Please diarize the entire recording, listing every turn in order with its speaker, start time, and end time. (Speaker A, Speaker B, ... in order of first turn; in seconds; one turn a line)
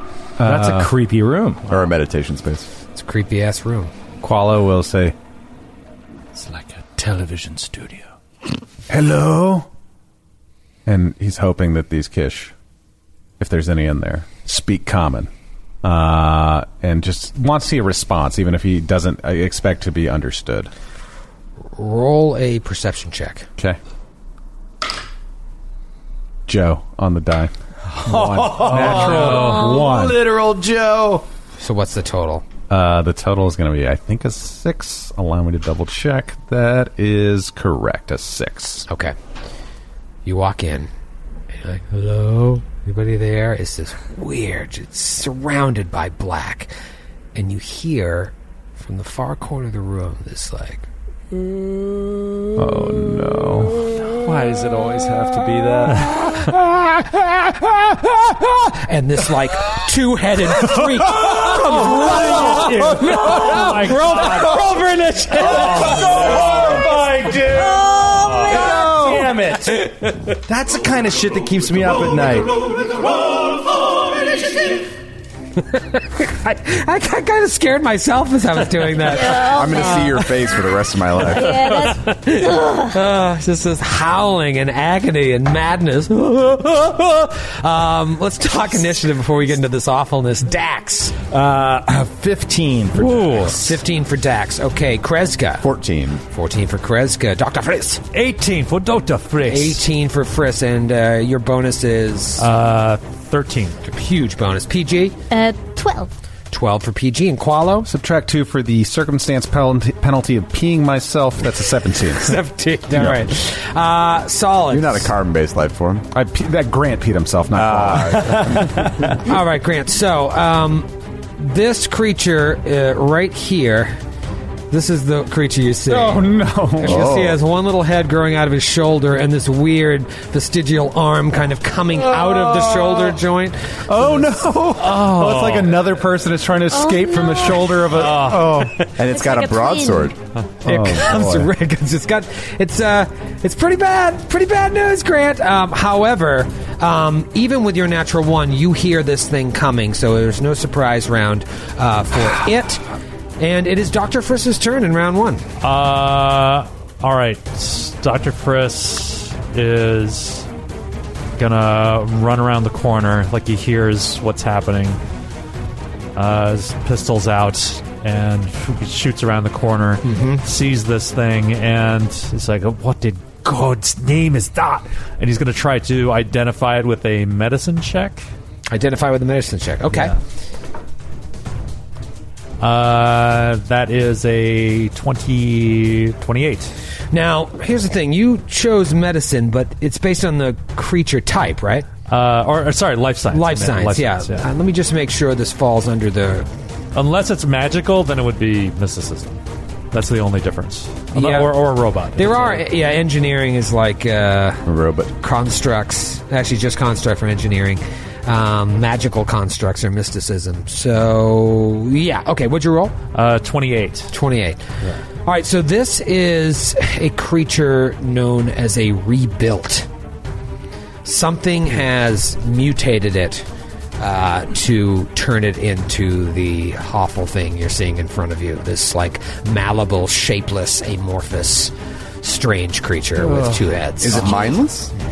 Speaker A: 0.4-0.9
Speaker B: 0.4-1.8
Speaker C: 1.7-2.7
Speaker D: 2.9-3.9
Speaker A: 4.2-5.1
Speaker B: 6.3-8.1
Speaker A: 8.9-9.7
Speaker A: 10.8-12.5
Speaker A: 13.4-15.3
Speaker A: 15.8-20.7
Speaker D: 21.8-23.5
Speaker A: 26.5-27.5
Speaker B: 27.9-31.2
Speaker A: 28.0-30.2
Speaker D: 31.6-32.4
Speaker A: 32.7-38.9
Speaker D: 38.9-39.1
Speaker D: 40.2-40.9
Speaker D: 41.5-46.7
Speaker D: 47.3-50.9
Speaker A: 52.5-53.9
Speaker B: 54.1-56.2
Speaker D: 56.4-66.3
Speaker B: 61.4-64.6
Speaker E: 61.5-64.6
Speaker B: 65.3-74.8
Speaker E: 65.4-66.1
Speaker D: 68.3-69.3
Speaker D: 75.7-80.3
Speaker F: 79.1-80.2
Speaker C: 79.3-81.7
Speaker F: 81.3-82.9
Speaker D: 81.4-91.2
Speaker B: 91.3-93.7
Speaker E: 92.9-93.6
Speaker D: 93.4-95.7
Speaker C: 95.6-96.2
Speaker D: 96.3-98.0
Speaker E: 98.1-99.8
Speaker D: 99.4-102.5
Speaker E: 102.4-103.8
Speaker D: 103.8-105.2
Speaker F: 105.3-106.1
Speaker D: 106.5-107.9
Speaker A: 107.8-112.4
Speaker D: 112.2-115.1
Speaker C: 114.7-116.0
Speaker A: 116.1-118.9
Speaker C: 117.5-119.1
Speaker D: 119.2-124.0
Speaker D: 124.7-134.3
Speaker A: 125.9-127.2
Speaker C: 126.8-127.4
Speaker A: 132.2-133.0
Speaker A: 133.9-138.7
Speaker E: 134.8-135.8
Speaker F: 136.7-137.8
Speaker E: 137.9-138.9
Speaker C: 139.0-140.1
Speaker F: 139.0-140.1
Speaker A: 140.6-141.5
Speaker D: 140.6-152.8
Speaker D: 153.4-155.4
Speaker E: 155.6-160.5
Speaker E: 161.4-165.0
Speaker E: 166.1-178.2
Speaker D: 170.0-170.4
Speaker D: 178.7-180.1
Speaker E: 179.9-180.2
Speaker E: 182.6-186.7
Speaker D: 187.1-191.9
Speaker E: 192.1-194.4
Speaker D: 193.3-196.5
Speaker E: 196.9-199.4
Speaker E: 199.9-202.6
Speaker D: 201.1-201.5
Speaker D: 202.2-204.6
Speaker C: 204.7-205.1
Speaker D: 205.2-212.9
Speaker E: 213.1-214.1
Speaker D: 214.1-214.6
Speaker D: 215.2-219.9
Speaker D: 221.0-223.4
Speaker D: 224.0-234.6
Speaker C: 234.0-234.9